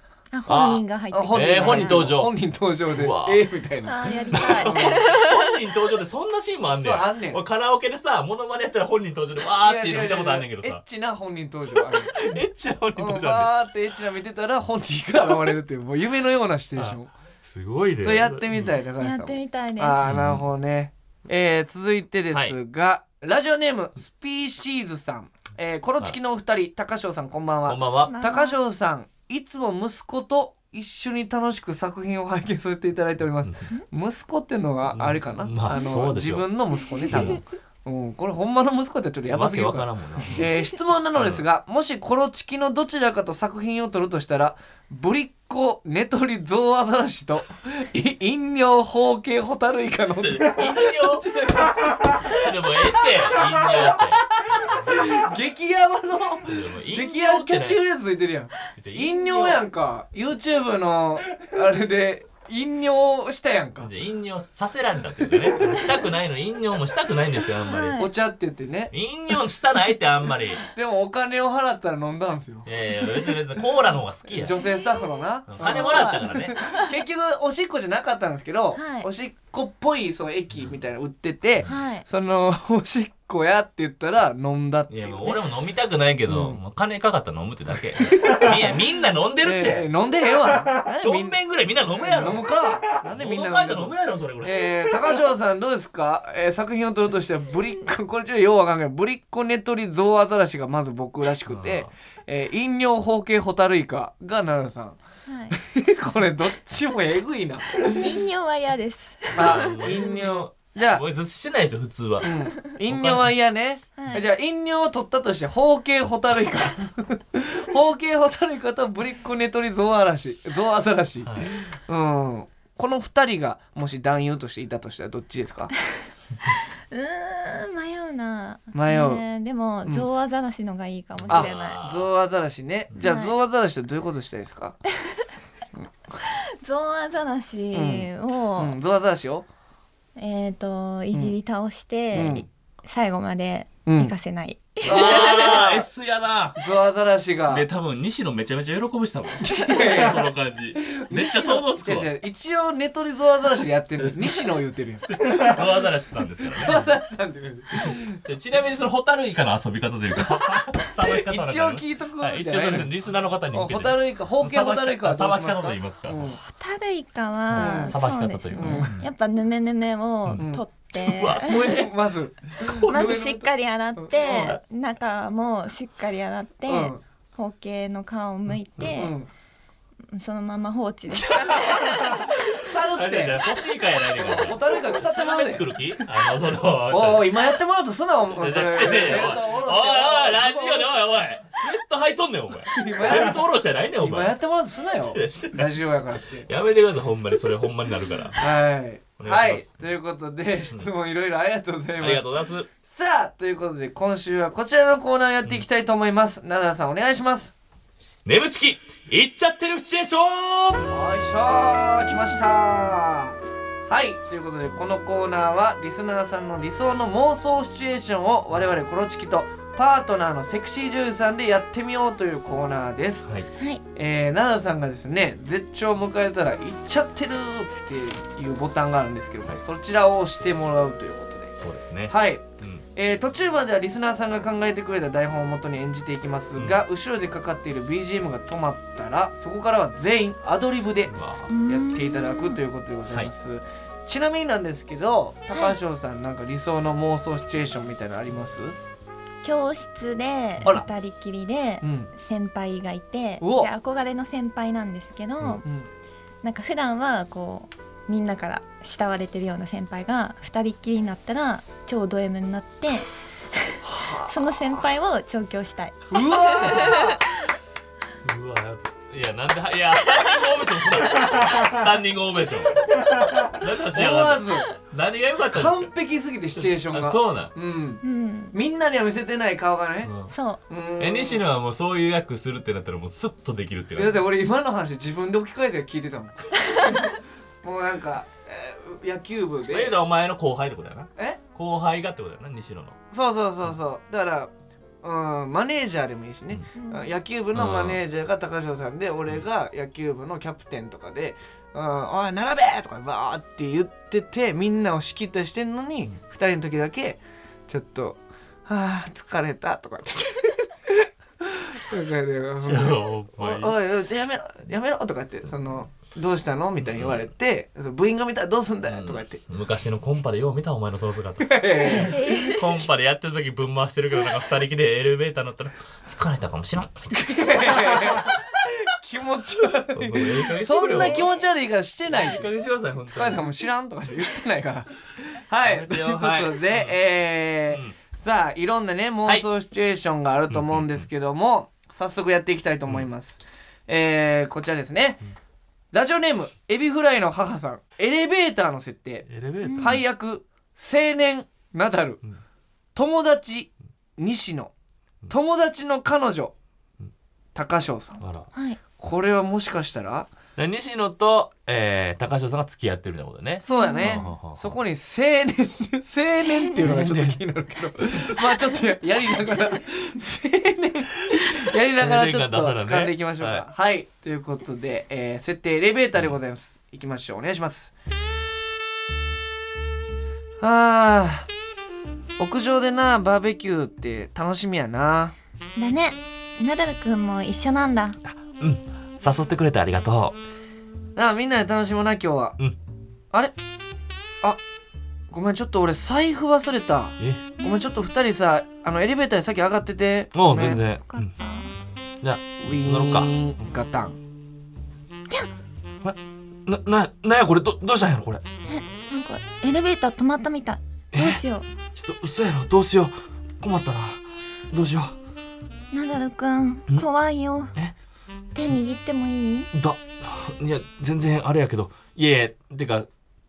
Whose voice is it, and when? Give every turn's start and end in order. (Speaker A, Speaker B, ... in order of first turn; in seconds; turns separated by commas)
Speaker A: 0.3-2.1, Speaker B: 0.5-2.3, Speaker C: 1.1-5.1, Speaker B: 2.9-3.5, Speaker A: 3.8-5.5, Speaker B: 4.3-10.8, Speaker C: 6.7-7.4, Speaker C: 9.6-12.3, Speaker B: 11.8-13.5, Speaker C: 12.9-17.1, Speaker B: 16.8-18.7, Speaker C: 18.0-52.5, Speaker A: 19.0-20.1, Speaker B: 20.0-20.4, Speaker B: 27.7-28.1, Speaker A: 28.1-28.6, Speaker B: 34.9-36.5, Speaker B: 37.1-37.4, Speaker B: 39.3-40.5, Speaker B: 41.1-41.4, Speaker B: 50.0-51.2, Speaker B: 52.2-55.2, Speaker C: 53.2-63.9, Speaker B: 56.5-57.8, Speaker B: 58.8-59.6, Speaker B: 63.8-68.0, Speaker A: 67.7-68.1, Speaker C: 68.0-68.9, Speaker B: 68.9-70.6, Speaker C: 70.7-72.7, Speaker B: 72.7-74.5, Speaker C: 74.3-85.4, Speaker A: 74.5-76.9, Speaker B: 75.5-76.6, Speaker A: 78.7-79.1, Speaker A: 81.7-82.0, Speaker B: 84.9-89.9, Speaker C: 86.3-86.6, Speaker C: 88.1-88.7, Speaker C: 89.4-91.4, Speaker B: 91.0-94.9, Speaker C: 92.0-105.0, Speaker B: 101.5-101.9, Speaker A: 105.3-105.6, Speaker C: 105.5-108.1, Speaker A: 107.9-109.9, Speaker B: 109.3-113.3, Speaker C: 109.3-111.0, Speaker C: 112.2-125.7, Speaker A: 114.0-114.2, Speaker B: 121.2-121.6, Speaker A: 126.9-131.8, Speaker C: 128.7-129.2, Speaker B: 131.2-132.1, Speaker C: 131.3-134.8, Speaker A: 133.0-133.3, Speaker A: 136.2-138.8, Speaker C: 137.7-139.5, Speaker A: 140.2-145.7, Speaker C: 142.1-142.4, Speaker C: 143.8-144.1, Speaker B: 144.8-146.6, Speaker C: 144.8-145.9, Speaker C: 146.6-147.7, Speaker B: 147.5-152.1, Speaker C: 149.4-150.3, Speaker C: 150.8-155.1, Speaker B: 155.1-156.9, Speaker C: 156.5-158.2, Speaker B: 157.8-166.2, Speaker C: 160.2-162.9, Speaker C: 163.5-166.4, Speaker A: 166.2-171.6, Speaker B: 167.5-169.1, Speaker C: 167.5-168.0, Speaker C: 168.5-168.9, Speaker C: 170.4-170.6, Speaker B: 171.0-171.9, Speaker C: 171.3-173.5, Speaker B: 172.6-173.2, Speaker A: 172.9-179.1, Speaker C: 174.0-174.6, Speaker B: 174.3-174.6, Speaker C: 176.7-177.0, Speaker C: 178.8-179.3, Speaker A: 180.1-182.4, Speaker B: 181.2-187.4, Speaker C: 182.5-183.5, Speaker C: 184.2-185.7, Speaker C: 186.9-191.0, Speaker B: 188.3-194.3, Speaker C: 192.7-196.5, Speaker B: 194.9-195.8, Speaker B: 196.4-198.5, Speaker C: 198.4-202.3, Speaker B: 199.2-199.8, Speaker B: 202.0-202.7, Speaker C: 202.8-207.5, Speaker B: 208.2-210.9, Speaker C: 210.9-213.4, Speaker C: 213.9-223.3, Speaker C: 223.9-231.5, Speaker B: 231.6-232.8, Speaker C: 232.1-241.1, Speaker B: 236.6-236.8, Speaker B: 241.1-241.5, Speaker A: 241.5-242.6, Speaker C: 241.7-248.8, Speaker A: 249.4-255.6, Speaker C: 250.6-250.9, Speaker C: 251.8-252.1, Speaker C: 253.4-253.7, Speaker C: 255.6-255.9, Speaker A: 256.4-267.2, Speaker C: 263.8-264.8, Speaker C: 266.1-267.2, Speaker B: 268.2-275.9, Speaker C: 273.9-274.7, Speaker C: 275.5-278.0, Speaker B: 276.6-277.5, Speaker A: 278.0-278.5, Speaker C: 278.5-280.1, Speaker B: 280.0-280.3, Speaker A: 280.3-280.6, Speaker C: 280.7-281.4, Speaker B: 281.0-284.2, Speaker C: 283.9-289.9, Speaker B: 289.7-293.0, Speaker C: 293.1-319.4, Speaker A: 296.7-297.1, Speaker B: 297.5-298.0, Speaker B: 312.6-313.7, Speaker B: 316.8-317.3, Speaker B: 318.9-327.1, Speaker C: 321.4-322.4, Speaker A: 321.8-322.7, Speaker C: 327.1-332.5, Speaker B: 329.9-331.3, Speaker A: 330.9-331.4, Speaker B: 332.1-333.5, Speaker C: 333.0-345.2, Speaker B: 335.6-337.0, Speaker B: 337.7-337.9, Speaker B: 340.5-341.0, Speaker C: 345.9-352.2, Speaker B: 349.3-350.0, Speaker A: 349.6-350.0, Speaker C: 352.9-354.7, Speaker C: 355.3-356.5, Speaker C: 357.5-358.2, Speaker B: 358.2-358.5, Speaker A: 358.5-358.8, Speaker C: 359.0-360.3, Speaker B: 360.6-364.7, Speaker C: 363.6-377.9, Speaker A: 363.7-364.3, Speaker A: 366.4-366.8, Speaker B: 366.8-367.4, Speaker B: 371.3-373.6, Speaker C: 380.6-381.5, Speaker C: 382.4-385.3, Speaker A: 385.8-388.2, Speaker B: 388.2-390.4, Speaker C: 391.1-392.6, Speaker C: 395.3-400.8, Speaker B: 397.2-397.5, Speaker B: 400.3-401.3, Speaker A: 401.0-401.7, Speaker B: 402.2-403.3, Speaker C: 402.6-404.2, Speaker B: 406.0-408.4, Speaker A: 408.7-411.6, Speaker B: 411.1-411.4, Speaker B: 411.9-415.1, Speaker A: 415.9-417.7, Speaker A: 418.5-419.7, Speaker B: 419.7-423.1